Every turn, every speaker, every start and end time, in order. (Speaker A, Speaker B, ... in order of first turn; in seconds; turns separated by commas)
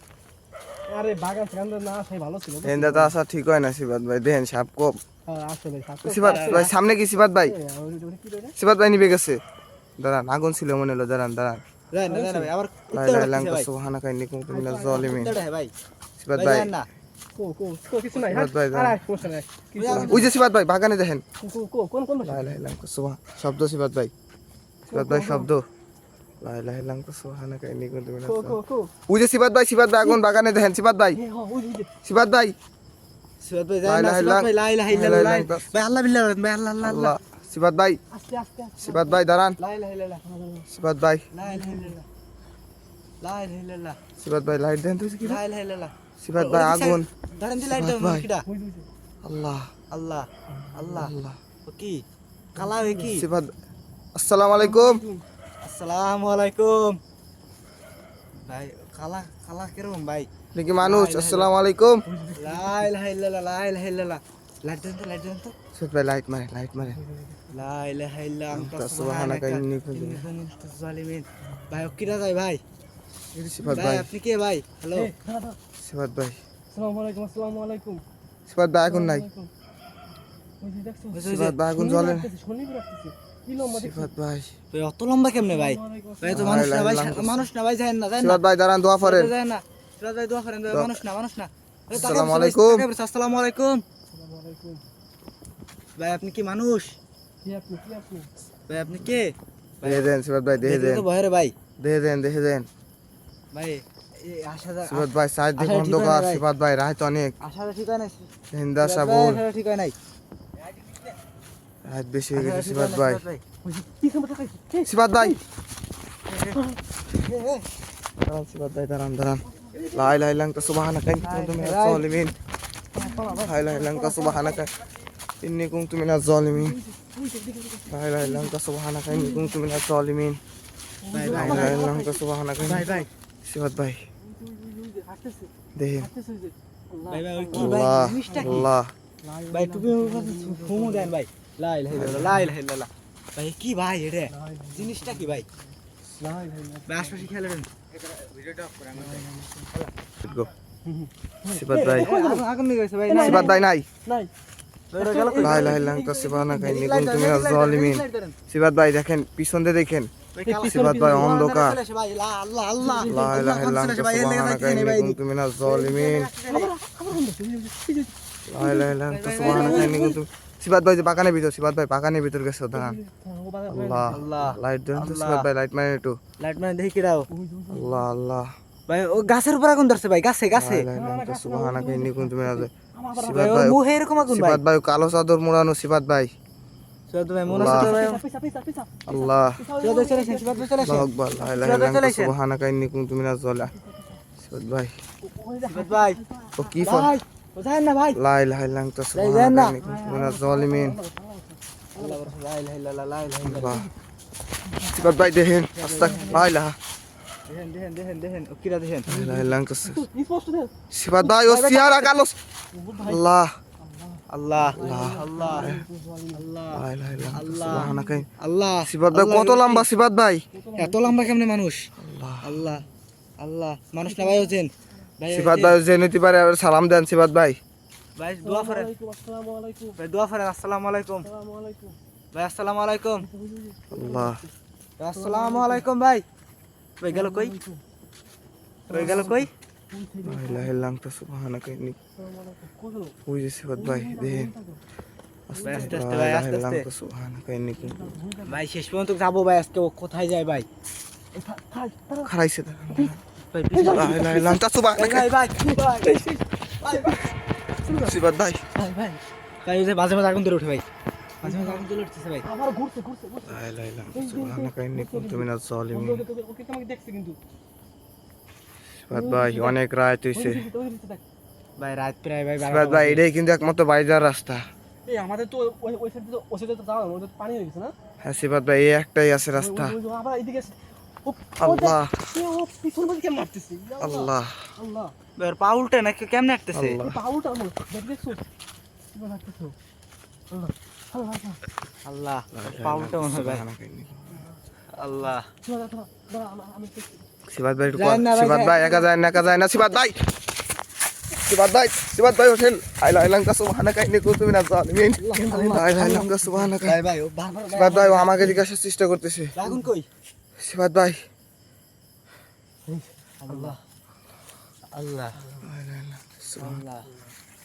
Speaker A: 0.9-3.1, Speaker B: 2.6-4.9, Speaker A: 5.3-6.7, Speaker B: 6.0-7.5, Speaker C: 6.2-6.7, Speaker A: 7.5-8.6, Speaker B: 8.6-9.4, Speaker B: 10.0-11.6, Speaker C: 11.9-13.7, Speaker A: 12.1-12.5, Speaker B: 12.9-15.4, Speaker A: 14.5-15.4, Speaker C: 14.9-15.7, Speaker B: 16.2-16.7, Speaker C: 16.3-16.9, Speaker A: 17.3-20.3, Speaker B: 18.2-19.3, Speaker C: 19.8-20.3, Speaker B: 19.9-21.2, Speaker A: 21.4-22.6, Speaker B: 22.2-24.1, Speaker A: 24.9-25.5, Speaker B: 24.9-25.6, Speaker B: 26.4-31.2, Speaker A: 28.2-28.9, Speaker A: 31.1-31.9, Speaker B: 32.0-32.5, Speaker C: 33.4-37.2, Speaker B: 33.8-35.6, Speaker B: 36.8-38.0, Speaker A: 38.1-39.2, Speaker B: 38.8-39.6, Speaker C: 39.6-40.2, Speaker A: 40.2-40.7, Speaker B: 40.7-41.3, Speaker C: 41.3-42.1, Speaker A: 41.5-42.0, Speaker C: 43.2-44.0, Speaker B: 44.2-45.4, Speaker C: 45.2-48.5, Speaker B: 46.2-47.1, Speaker B: 47.6-48.3, Speaker A: 48.5-48.9, Speaker B: 49.2-49.7, Speaker C: 49.9-51.1, Speaker A: 50.5-50.8, Speaker B: 50.9-51.4, Speaker C: 51.7-52.0, Speaker A: 52.5-53.1, Speaker C: 52.5-53.3, Speaker B: 53.1-53.5, Speaker B: 54.1-55.0, Speaker A: 54.5-55.2, Speaker C: 55.6-57.0, Speaker C: 58.5-60.3, Speaker B: 60.5-62.0, Speaker C: 60.8-61.5, Speaker A: 62.1-62.9, Speaker C: 62.4-65.5, Speaker B: 65.7-67.0, Speaker A: 66.8-67.7, Speaker C: 67.5-72.6, Speaker B: 68.5-70.3, Speaker A: 73.4-74.0, Speaker B: 73.5-74.1, Speaker C: 73.7-75.1, Speaker A: 74.9-75.6, Speaker B: 75.8-76.4, Speaker A: 76.7-78.0, Speaker B: 78.5-79.3, Speaker A: 78.8-79.5, Speaker A: 80.6-84.1, Speaker C: 81.1-81.6, Speaker B: 81.2-82.3, Speaker B: 83.6-84.5, Speaker C: 84.7-88.4, Speaker A: 85.4-86.7, Speaker B: 86.3-87.5, Speaker B: 88.2-89.3, Speaker C: 89.0-93.8, Speaker B: 90.7-91.0, Speaker B: 91.9-92.9, Speaker A: 94.1-94.8, Speaker C: 96.0-97.0, Speaker A: 97.4-98.3, Speaker C: 98.7-101.5, Speaker B: 99.8-101.1, Speaker B: 101.8-102.7, Speaker C: 103.5-106.5, Speaker B: 104.9-107.4, Speaker C: 107.4-109.9, Speaker B: 108.5-109.4, Speaker C: 110.7-111.0, Speaker B: 111.8-113.2, Speaker C: 112.3-113.4, Speaker A: 113.6-115.4, Speaker B: 114.8-115.4, Speaker C: 116.3-116.6, Speaker A: 116.5-116.8, Speaker C: 117.2-117.7, Speaker B: 118.2-122.3, Speaker A: 119.6-120.1, Speaker C: 121.2-122.1, Speaker A: 122.9-124.7, Speaker B: 123.4-124.7, Speaker B: 125.4-126.8, Speaker A: 126.5-128.5, Speaker B: 127.9-130.4, Speaker A: 129.1-129.6, Speaker A: 131.0-133.0, Speaker C: 131.1-131.8, Speaker B: 131.3-134.0, Speaker C: 132.7-133.1, Speaker A: 134.2-138.6, Speaker B: 135.8-136.1, Speaker C: 137.1-138.7, Speaker B: 137.5-138.9, Speaker A: 139.2-141.2, Speaker C: 139.5-145.5, Speaker B: 141.9-142.4, Speaker A: 144.3-147.3, Speaker C: 146.9-149.9, Speaker A: 148.9-149.7, Speaker B: 150.2-150.5, Speaker A: 150.8-152.4, Speaker B: 151.5-152.1, Speaker C: 151.7-153.6, Speaker A: 153.1-154.3, Speaker B: 153.2-153.9, Speaker C: 154.9-155.9, Speaker A: 155.0-156.5, Speaker B: 155.4-160.1, Speaker C: 156.5-158.4, Speaker C: 160.3-166.7, Speaker A: 160.4-161.4, Speaker B: 160.7-161.8, Speaker A: 162.8-163.4, Speaker B: 163.0-166.3, Speaker A: 166.5-170.2, Speaker B: 168.5-173.0, Speaker C: 169.1-170.1, Speaker A: 172.8-174.2, Speaker B: 173.7-176.2, Speaker C: 174.1-175.5, Speaker C: 176.4-177.3, Speaker A: 177.3-178.1, Speaker B: 177.7-178.5, Speaker C: 178.9-180.9, Speaker B: 180.5-186.3, Speaker A: 180.9-183.7, Speaker C: 183.3-184.6, Speaker C: 187.1-188.2, Speaker B: 187.5-188.0, Speaker A: 187.6-191.4, Speaker B: 189.1-189.6, Speaker C: 189.8-192.3, Speaker B: 190.8-193.7, Speaker A: 193.6-194.2, Speaker B: 194.4-194.9, Speaker A: 195.2-197.1, Speaker C: 195.7-196.2, Speaker B: 196.6-197.1, Speaker C: 196.8-198.2, Speaker B: 198.1-201.0, Speaker C: 199.1-199.8, Speaker A: 199.8-202.3, Speaker C: 202.0-203.8, Speaker B: 203.4-203.9, Speaker A: 203.6-203.9, Speaker B: 204.8-206.8, Speaker C: 205.8-206.5, Speaker A: 205.9-206.5, Speaker C: 207.5-209.2, Speaker B: 209.1-210.0, Speaker A: 209.2-210.7, Speaker B: 210.9-212.4, Speaker C: 211.4-212.2, Speaker A: 212.7-213.2, Speaker B: 213.0-213.5, Speaker A: 213.8-216.5, Speaker C: 214.3-215.8, Speaker B: 214.7-215.8, Speaker C: 216.3-219.9, Speaker B: 216.7-218.3, Speaker A: 217.2-218.2, Speaker B: 218.8-220.4, Speaker A: 220.5-221.4, Speaker C: 220.8-221.8, Speaker B: 222.0-222.8, Speaker C: 222.4-222.8, Speaker C: 223.4-225.8, Speaker A: 224.1-224.6, Speaker B: 225.3-227.6, Speaker C: 228.2-228.9, Speaker A: 228.4-230.0, Speaker C: 230.0-231.3, Speaker A: 231.2-232.0, Speaker C: 232.3-233.3, Speaker A: 233.2-234.5, Speaker B: 233.9-234.4, Speaker C: 235.0-236.2, Speaker A: 235.1-235.8, Speaker C: 237.0-237.5, Speaker A: 237.1-237.8, Speaker A: 238.9-240.7, Speaker C: 238.9-239.5, Speaker B: 240.2-242.0, Speaker A: 242.2-243.2, Speaker B: 243.3-244.5, Speaker A: 243.8-244.8, Speaker B: 245.5-248.2, Speaker A: 245.5-246.0, Speaker C: 245.6-246.9, Speaker A: 247.8-248.6, Speaker C: 248.4-250.7, Speaker A: 251.3-252.3, Speaker B: 252.2-253.2, Speaker A: 252.9-253.2, Speaker C: 253.5-257.2, Speaker A: 253.7-254.5, Speaker B: 253.8-255.3, Speaker A: 255.6-257.2, Speaker A: 257.8-258.3, Speaker B: 257.9-258.6, Speaker C: 258.8-260.8, Speaker A: 261.4-261.8, Speaker C: 261.4-262.5, Speaker A: 262.4-263.6, Speaker B: 263.5-266.2, Speaker A: 264.1-267.4, Speaker B: 269.0-270.7, Speaker A: 269.1-269.8, Speaker A: 270.3-271.2, Speaker C: 271.8-273.2, Speaker B: 272.6-274.6, Speaker A: 275.1-277.9, Speaker B: 278.2-280.0, Speaker A: 279.6-285.1, Speaker B: 281.6-282.3, Speaker B: 284.0-284.7, Speaker C: 285.4-287.0, Speaker B: 286.7-287.2, Speaker A: 287.0-288.4, Speaker A: 289.1-289.8, Speaker A: 290.5-291.6, Speaker C: 292.0-293.6, Speaker B: 292.5-294.5, Speaker A: 294.3-294.6, Speaker C: 294.9-295.5, Speaker A: 295.6-297.3, Speaker B: 297.5-300.3, Speaker C: 297.9-299.1, Speaker B: 301.4-307.0, Speaker A: 305.2-306.7, Speaker C: 305.4-306.1, Speaker C: 306.8-308.6, Speaker B: 307.7-309.6, Speaker C: 309.6-310.1, Speaker B: 310.6-311.2, Speaker A: 312.9-313.8, Speaker C: 313.4-313.8, Speaker C: 314.9-315.4, Speaker A: 315.4-315.7, Speaker B: 315.6-316.9, Speaker C: 316.6-317.1, Speaker A: 317.1-317.3